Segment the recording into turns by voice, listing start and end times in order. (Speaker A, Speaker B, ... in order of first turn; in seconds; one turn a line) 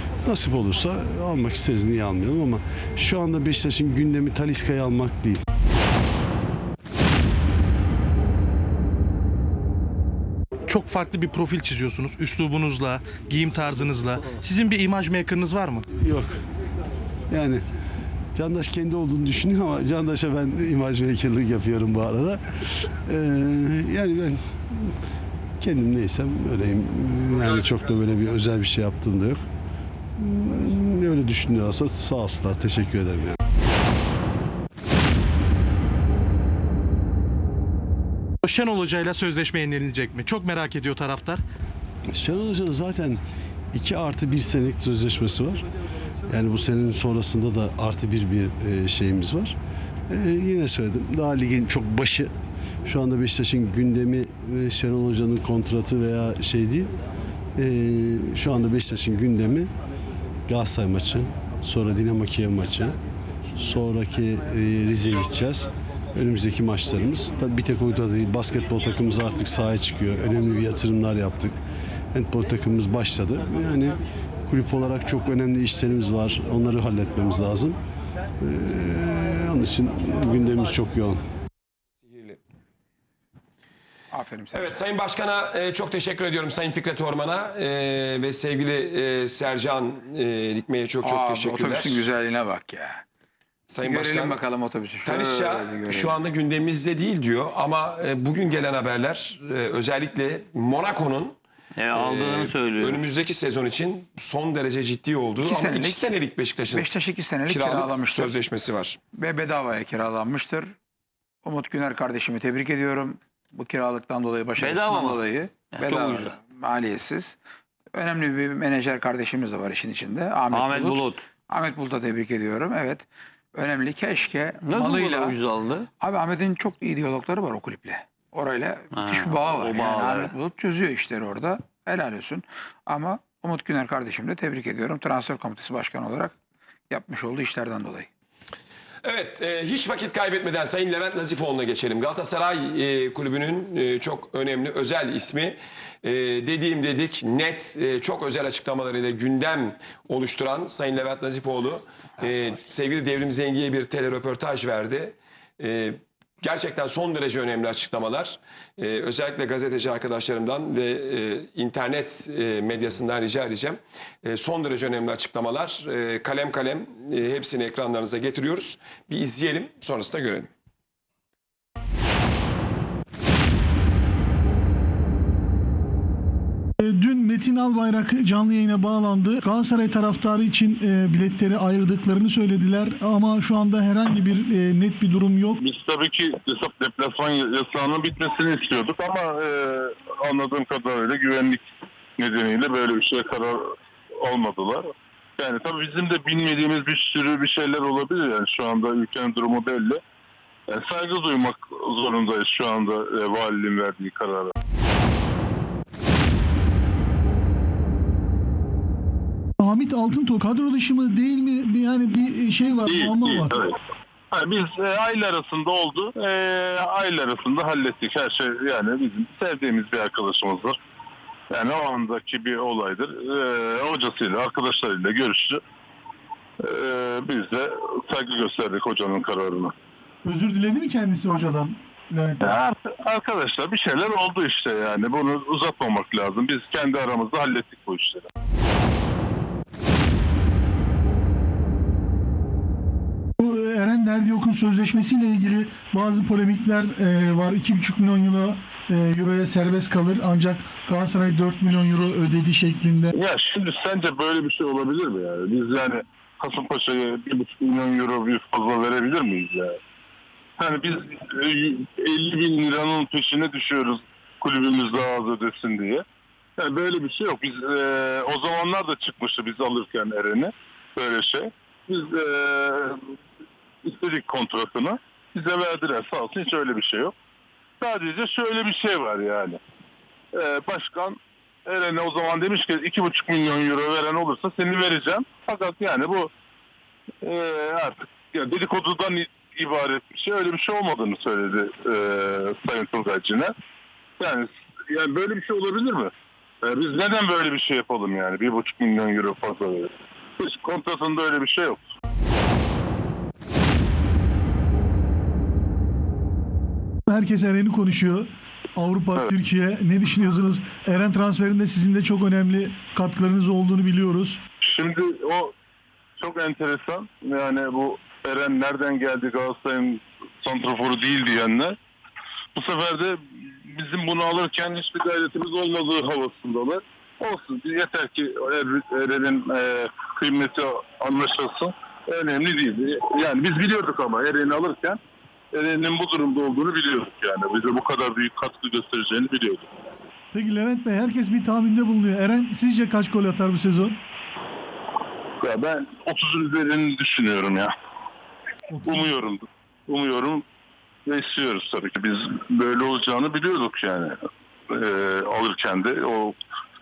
Speaker A: 0.2-5.4
Speaker B: 10.7-15.8
Speaker A: 15.9-16.4
Speaker A: 17.3-17.6
Speaker A: 18.3-24.9
Speaker A: 25.6-29.4
Speaker A: 30.2-33.4
Speaker B: 38.4-41.4
Speaker A: 42.1-43.2
Speaker A: 43.7-45.6
Speaker A: 46.3-49.5
Speaker A: 50.1-52.3
Speaker A: 52.8-56.9
Speaker A: 57.5-59.7
Speaker A: 60.5-63.0
Speaker A: 63.5-71.6
Speaker A: 72.1-77.8
Speaker A: 78.4-81.2
Speaker C: 82.0-82.4
Speaker D: 84.1-84.8
Speaker C: 84.5-92.0
Speaker D: 91.0-93.0
Speaker C: 93.7-94.4
Speaker D: 93.8-96.2
Speaker C: 95.0-101.4
Speaker E: 101.8-103.0
Speaker C: 101.9-106.9
Speaker D: 105.4-106.1
Speaker D: 106.7-108.3
Speaker C: 107.5-109.0
Speaker D: 109.1-110.7
Speaker D: 111.4-117.4
Speaker E: 114.6-115.2
Speaker E: 115.7-116.3
Speaker D: 117.9-125.4
Speaker E: 120.5-121.2
Speaker E: 124.6-125.9
Speaker D: 126.0-136.3
Speaker E: 128.9-130.3
Speaker D: 136.9-138.1
Speaker C: 139.0-170.5
Speaker F: 176.8-185.6
Speaker G: 185.6-191.6
Speaker G: 192.2-193.6
Speaker G: 194.2-200.0
Speaker G: 200.7-204.5
Speaker F: 209.6-213.5
Speaker G: 212.8-213.7
Speaker G: 214.3-220.8
Speaker G: 221.5-225.6
Speaker G: 226.6-229.7
Speaker F: 230.2-232.4
Speaker G: 232.4-238.2
Speaker F: 243.4-253.1
Speaker G: 253.1-259.7
Speaker G: 260.6-266.0
Speaker G: 266.6-272.9
Speaker G: 273.8-277.1
Speaker G: 277.8-279.6
Speaker G: 280.3-286.3
Speaker G: 287.2-293.5
Speaker G: 294.2-296.1
Speaker G: 296.6-301.8
Speaker F: 307.1-314.4
Speaker G: 314.6-315.5
Speaker G: 316.2-321.7
Speaker G: 322.6-323.2
Speaker G: 323.7-335.0
Speaker G: 335.5-339.6
Speaker F: 340.3-344.0
Speaker G: 345.4-347.7
Speaker G: 348.9-350.4
Speaker G: 351.1-354.2
Speaker G: 354.7-356.4